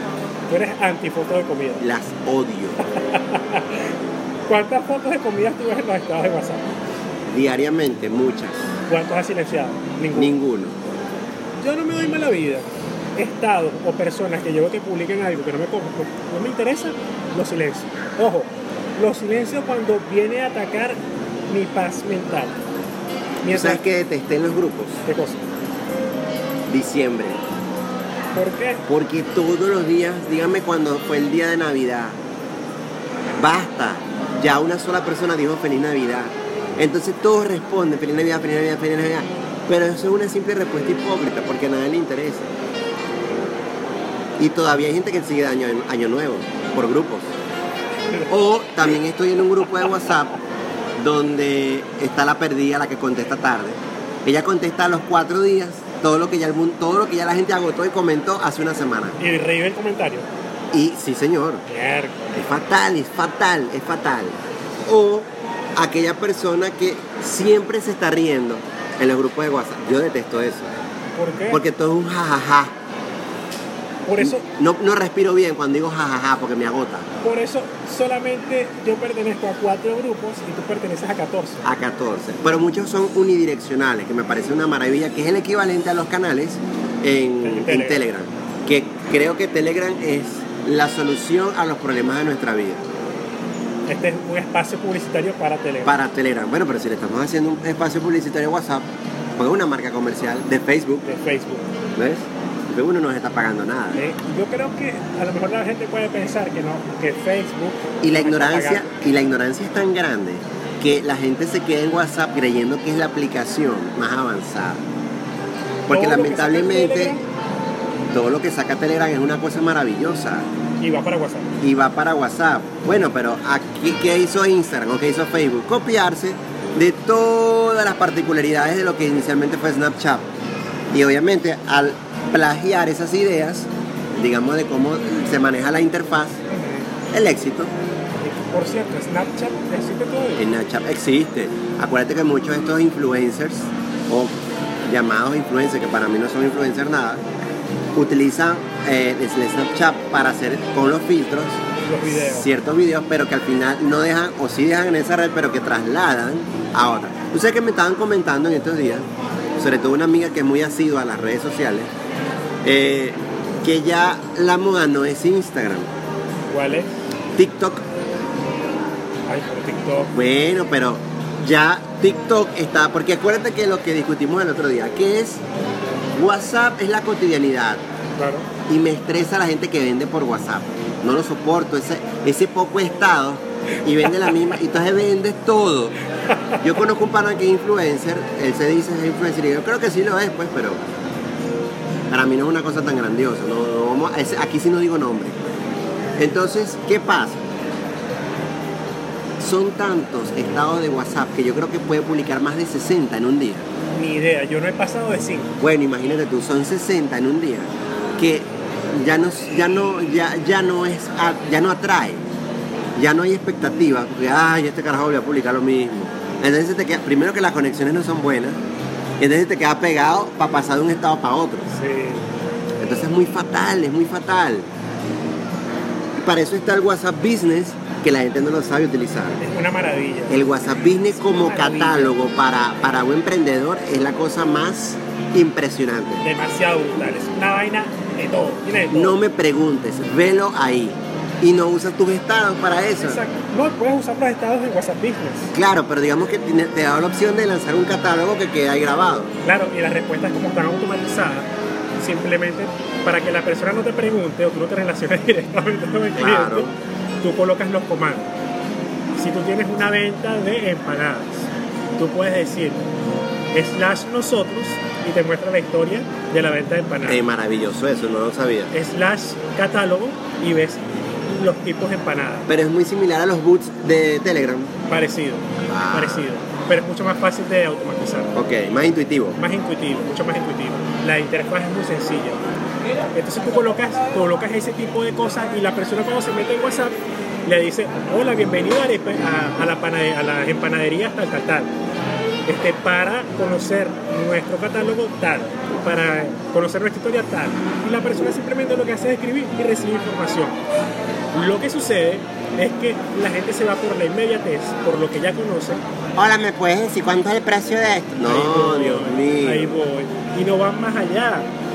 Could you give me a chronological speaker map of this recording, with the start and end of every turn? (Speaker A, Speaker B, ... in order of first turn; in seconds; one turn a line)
Speaker A: 0.5-1.8
Speaker B: 1.8-2.8
Speaker A: 2.8-3.9
Speaker A: 4.5-6.7
Speaker B: 7.3-8.7
Speaker A: 8.9-10.3
Speaker B: 10.1-10.8
Speaker A: 11.6-22.6
Speaker A: 23.4-23.8
Speaker B: 23.5-25.0
Speaker A: 25.1-25.4
Speaker B: 26.7-27.4
Speaker A: 28.3-28.9
Speaker B: 28.9-32.2
Speaker B: 33.4-42.5
Speaker B: 44.4-47.3
Speaker B: 48.3-50.3
Speaker B: 51.0-59.2
Speaker A: 59.2-60.3
Speaker B: 60.7-61.6
Speaker A: 61.7-62.5
Speaker B: 62.4-70.7
Speaker A: 71.2-71.6
Speaker B: 71.5-72.8
Speaker A: 74.1-74.5
Speaker B: 74.2-77.1
Speaker A: 77.2-81.7
Speaker B: 81.6-92.9
Speaker A: 87.4-88.0
Speaker A: 93.9-96.0
Speaker B: 95.8-101.0
Speaker A: 101.0-101.7
Speaker B: 102.0-104.0
Speaker A: 104.0-108.9
Speaker B: 108.0-114.8
Speaker B: 115.9-117.2
Speaker A: 115.9-117.2
Speaker B: 118.1-120.5
Speaker A: 120.8-121.5
Speaker B: 121.6-130.3
Speaker B: 130.9-136.4
Speaker A: 136.5-136.9
Speaker B: 137.1-137.7
Speaker A: 138.2-140.5
Speaker B: 140.4-147.2
Speaker B: 147.9-159.1
Speaker A: 151.8-152.5
Speaker B: 159.6-161.9
Speaker B: 162.6-165.9
Speaker A: 166.5-166.9
Speaker B: 167.4-167.8
Speaker A: 169.3-170.1
Speaker B: 170.1-175.4
Speaker B: 176.2-177.8
Speaker A: 178.2-178.5
Speaker B: 178.7-185.9
Speaker A: 184.1-184.3
Speaker A: 186.3-186.6
Speaker B: 186.6-190.8
Speaker B: 192.1-195.4
Speaker B: 196.2-197.4
Speaker B: 199.4-203.7
Speaker A: 203.9-205.6
Speaker B: 205.6-212.3
Speaker B: 213.0-218.6
Speaker B: 219.2-221.7
Speaker A: 221.7-222.3
Speaker B: 222.8-224.7
Speaker B: 226.2-229.4
Speaker A: 229.4-232.1
Speaker B: 230.3-236.2
Speaker A: 236.2-239.2
Speaker B: 238.9-243.2
Speaker A: 243.0-245.5
Speaker B: 245.5-249.3
Speaker A: 249.4-251.5
Speaker A: 252.0-258.3
Speaker B: 256.2-256.7
Speaker A: 259.2-262.8
Speaker A: 263.5-267.2
Speaker B: 267.1-268.7
Speaker A: 268.7-272.5
Speaker B: 272.5-274.7
Speaker A: 274.9-278.3
Speaker B: 275.7-276.3
Speaker B: 278.3-279.4
Speaker A: 279.4-282.4
Speaker A: 283.1-286.9
Speaker A: 287.5-291.7
Speaker A: 292.5-300.6
Speaker A: 301.3-305.8
Speaker B: 306.2-309.8
Speaker A: 308.2-311.5